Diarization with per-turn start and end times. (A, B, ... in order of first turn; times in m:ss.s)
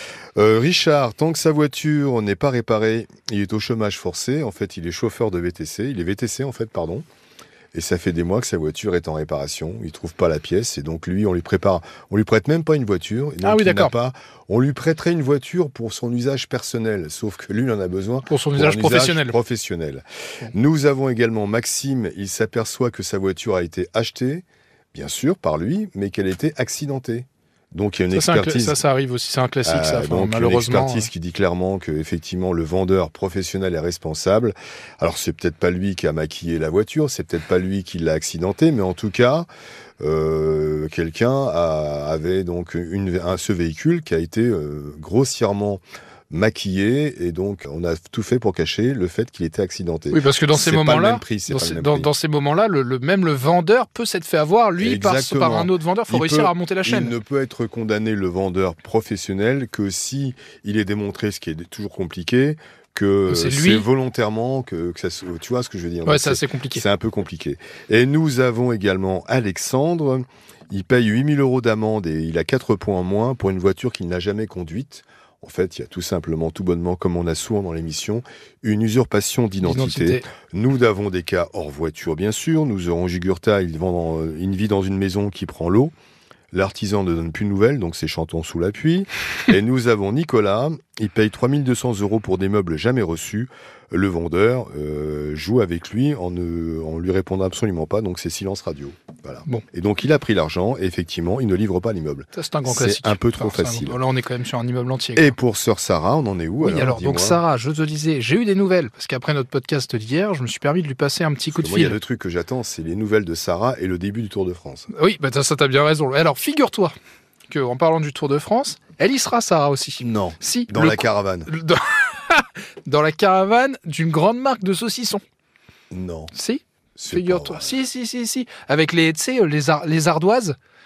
0:00.4-0:07.0 A
0:07.7-0:28.8 A
0:13.4-0:13.9 B
0:18.3-0:19.4 B
0:28.1-0:31.1 B
0:29.6-0:39.5 A
0:40.0-0:52.1 A
0:50.1-0:57.2 B
0:54.8-1:25.9 A
1:03.3-1:03.9 B
1:06.0-1:06.8 B
1:19.6-1:20.3 B
1:26.5-1:44.0 A
1:42.3-1:45.4 B
1:45.2-1:47.4 A
1:46.6-1:52.0 B
1:51.6-1:54.9 A
1:54.9-1:57.0 B
1:57.5-2:05.2 B
2:00.0-2:01.5 A
2:05.9-2:06.3 A
2:06.3-2:10.6 B
2:07.0-2:07.8 A